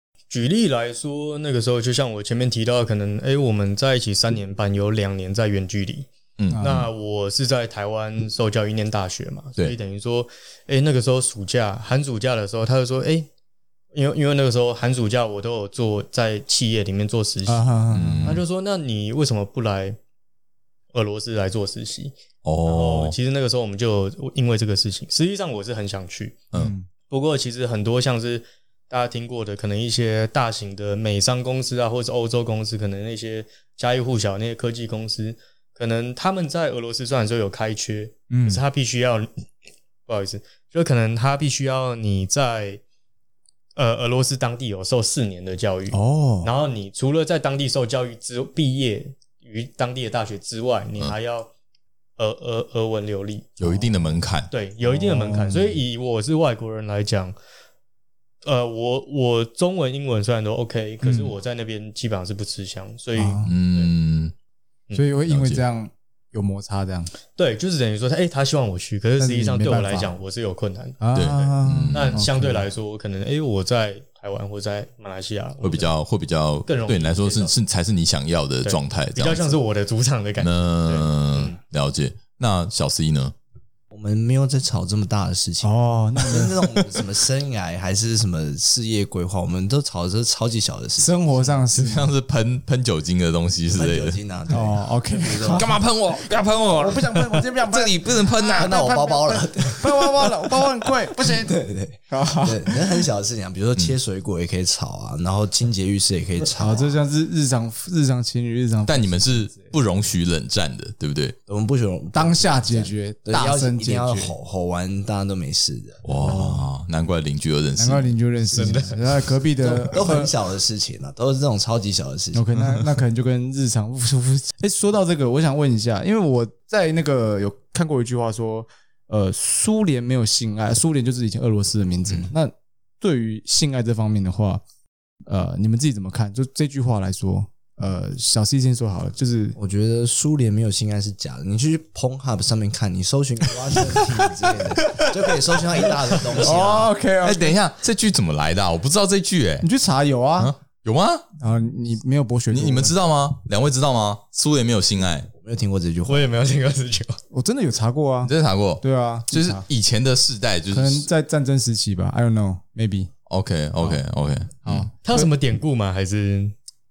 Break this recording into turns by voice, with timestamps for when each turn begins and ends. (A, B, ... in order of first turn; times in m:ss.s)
0:00.3-0:13.3 A
0:06.4-0:06.7 B
0:06.5-0:06.9 C
0:13.9-0:17.7 A
0:17.5-0:18.4 C
0:17.9-0:18.4 B
0:18.2-0:20.0 A
0:20.9-0:26.4 A
0:22.4-0:23.2 B
0:26.5-0:26.9 C
0:27.1-0:39.4 A
0:38.3-0:38.6 C
0:40.1-0:42.8 A
0:43.8-0:51.5 A
0:45.9-0:46.5 C
0:52.2-0:53.6 A
0:53.6-0:54.5 B
0:53.6-0:54.1 C
0:54.5-0:57.4 A
0:54.8-0:55.8 C
0:58.4-1:03.9 A
1:01.0-1:01.3 C
1:03.2-1:03.5 C
1:03.4-1:04.3 B
1:04.9-1:07.1 C
1:05.3-1:05.6 B
1:07.4-1:15.9 A
1:09.2-1:10.1 C
1:11.0-1:12.6 C
1:11.1-1:12.2 B
1:15.6-1:19.6 B
1:16.7-1:17.5 A
1:18.6-1:21.6 A
1:20.4-1:23.4 B
1:23.9-1:31.5 D
1:25.6-1:26.8 C
1:31.0-1:32.1 C
1:31.7-1:34.2 B
1:33.7-1:35.8 D
1:34.5-1:35.8 C
1:35.4-1:38.8 B
1:36.8-1:41.6 C
1:38.6-1:46.9 D
1:42.1-1:43.0 C
1:46.6-1:49.8 C
1:48.9-1:51.4 B
1:51.5-1:56.0 D
1:52.1-1:54.4 C
1:56.0-1:58.2 B
1:56.2-1:56.7 C
1:57.8-2:00.3 C
1:58.6-1:59.0 A
1:59.6-2:02.5 D
2:02.3-2:14.6 C
2:12.1-2:12.3 D
2:15.3-2:19.6 C
2:19.6-2:26.9 D
2:24.8-2:25.2 C
2:26.3-2:27.6 C
2:27.2-2:29.7 B
2:29.6-2:30.5 C
2:30.4-2:31.3 B
2:31.4-2:33.0 C
2:32.5-2:35.3 B
2:35.3-2:36.3 D
2:36.1-2:37.2 A
2:37.3-2:39.6 C
2:38.2-2:41.1 B
2:40.7-2:43.1 C
2:43.3-2:44.9 B
2:44.6-2:45.3 C
2:45.0-2:46.6 A